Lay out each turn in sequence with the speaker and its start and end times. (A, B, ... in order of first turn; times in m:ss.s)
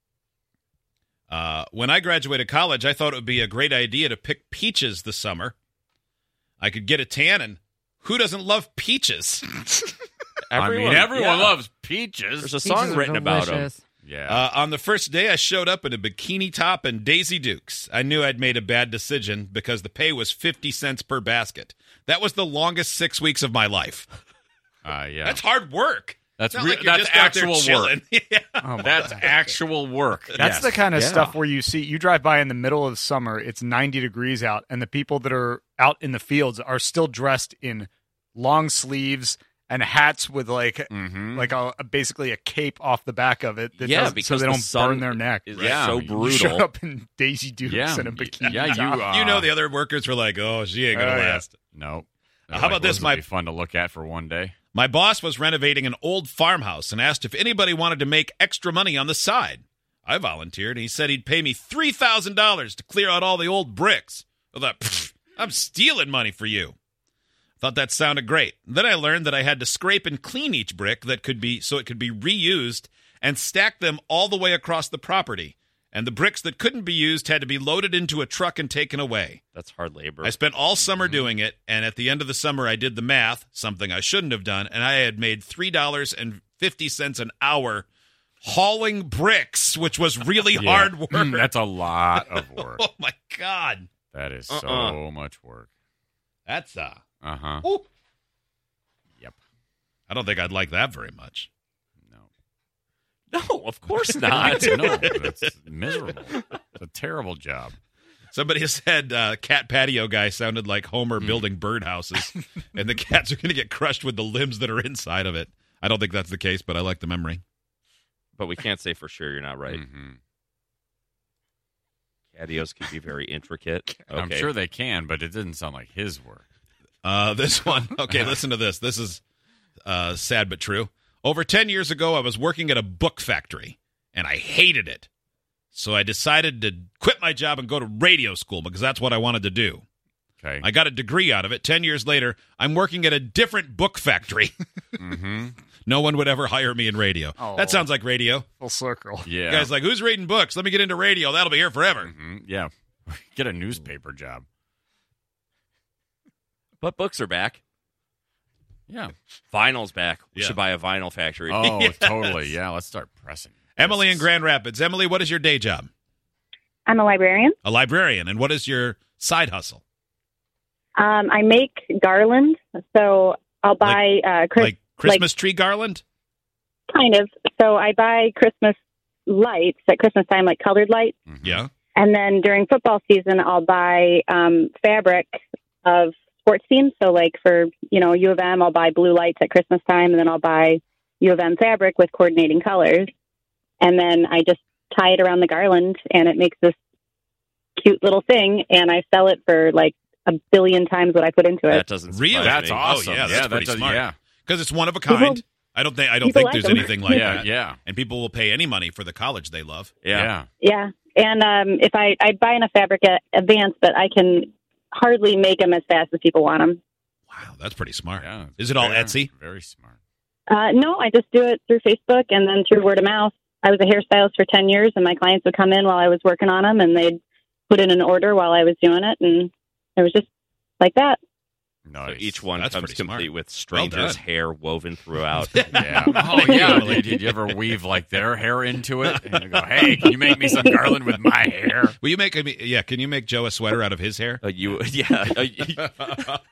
0:01.3-0:05.5 A
0:06.6-0:09.4 A
0:10.5-0:11.6 B
0:10.5-0:12.6 C
0:12.4-0:13.7 B
0:14.0-0:14.4 C
0:14.3-0:24.0 A
0:24.8-0:25.4 C
0:25.2-0:29.2 A
0:26.3-0:27.9 C
0:28.6-0:29.3 D
0:28.8-0:30.7 C
0:30.3-0:45.4 D
0:30.4-0:31.4 B
0:40.9-0:41.5 C
0:43.8-0:46.7 B
0:45.6-0:46.2 C
0:46.2-0:49.0 D
0:47.6-0:49.5 C
0:48.4-0:51.5 A
0:50.9-0:51.5 D
0:51.6-0:54.5 C
0:52.5-0:53.2 A
0:54.7-1:06.8 A
1:07.6-1:19.4 A
1:19.5-1:20.4 B
1:20.2-1:27.8 A
1:28.4-1:31.5 A
1:30.6-1:32.8 C
1:32.2-1:33.9 A
1:34.0-1:35.7 C
1:34.5-1:35.0 B
1:36.5-1:37.0 A
1:37.2-1:37.6 C
1:40.1-1:41.5 A
1:43.3-1:45.2 B
1:44.3-1:47.7 C
1:48.3-1:57.4 A
1:58.4-1:59.8 B
1:59.7-2:00.2 C
2:02.3-2:04.5 B
2:04.1-2:06.4 C
2:07.0-2:09.2 A
2:09.8-2:15.1 A
2:15.7-2:19.8 A
2:20.6-2:24.5 A
2:25.0-2:25.6 C
2:25.8-2:28.4 A
2:27.4-2:27.9 D
2:28.6-2:29.3 D
2:29.2-2:29.6 C
2:29.5-2:32.1 A
2:32.1-2:34.4 C
2:36.8-2:37.6 B
2:38.9-2:39.1 C
2:39.5-2:41.9 B
2:41.5-2:44.2 C
2:43.8-2:45.9 A
2:46.9-2:47.6 E
2:47.6-2:49.8 A
2:51.0-2:55.2 E
2:54.6-2:56.0 A
2:56.9-2:58.8 E
2:59.3-3:01.1 E
3:01.3-3:01.6 C
3:01.4-3:01.7 A
3:02.0-3:13.1 E
3:13.8-3:16.7 E
3:17.8-3:21.9 E
3:21.7-3:22.9 B
3:22.1-3:29.9 A
3:22.4-3:24.2 C
3:25.1-3:25.4 E
3:26.2-3:27.4 E
3:27.1-3:27.8 C
3:30.0-3:30.3 B
3:30.2-3:30.5 C
3:30.6-3:36.8 E
3:37.3-3:39.3 A
3:38.2-3:39.9 C
3:40.5-3:50.2 E
3:50.8-3:51.2 E
3:51.8-3:52.5 C
3:52.0-3:55.7 B
3:52.6-3:54.2 A
3:55.5-3:57.3 A
3:55.8-4:02.0 C
3:56.4-3:57.0 E
4:02.0-4:04.4 A
4:04.4-4:06.4 B